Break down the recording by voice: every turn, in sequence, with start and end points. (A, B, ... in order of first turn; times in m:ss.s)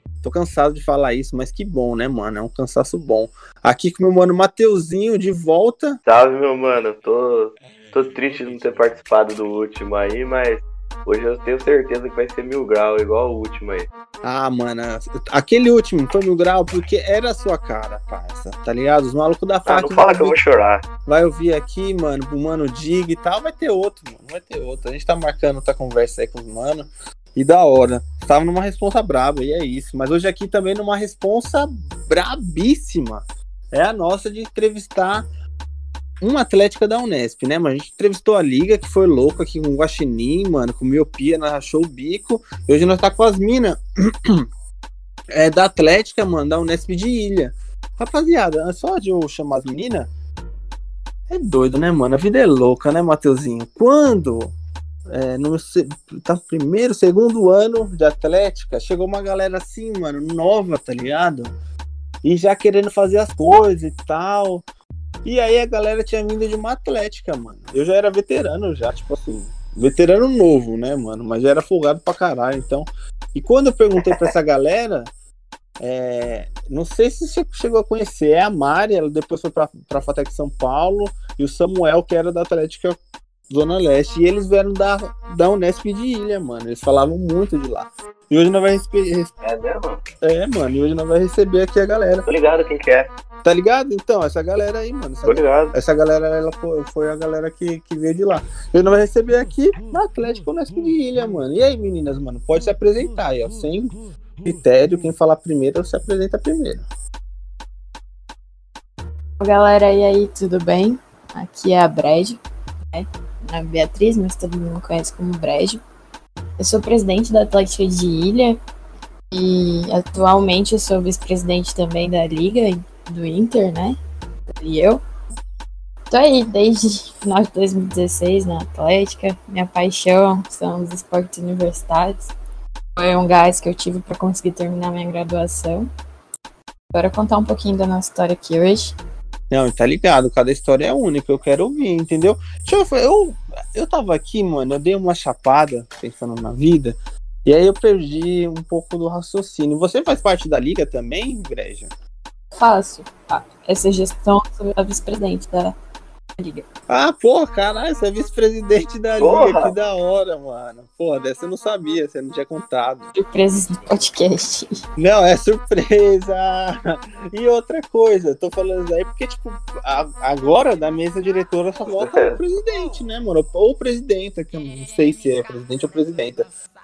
0:00.2-0:06.0 A
0:06.0-0:13.9 B
0:14.2-0:20.4 A
0:19.7-0:20.8 B
0:21.0-0:35.2 A
0:36.2-0:44.4 A
0:45.3-0:50.1 A
0:51.3-0:54.5 A
0:55.1-1:01.5 A
1:02.2-1:04.6 A
1:05.2-1:15.1 A
1:15.8-1:23.0 A
1:23.5-1:29.3 A
1:29.4-1:30.0 B
1:30.2-1:32.2 A
1:32.2-1:33.1 B
1:33.4-1:46.8 A
1:35.2-1:35.7 B
1:49.4-1:52.4 C
1:52.9-1:55.8 C
1:56.6-1:58.6 C
1:59.3-2:04.0 C
2:04.5-2:05.0 C
2:06.1-2:12.3 C
2:13.0-2:15.9 C
2:16.9-2:18.9 C
2:19.5-2:31.9 A
2:32.5-2:35.7 C
2:36.4-2:36.6 C
2:36.9-2:43.1 A
2:39.2-2:39.7 B
2:43.1-2:44.8 C
2:45.0-2:56.5 A
2:52.0-2:52.3 B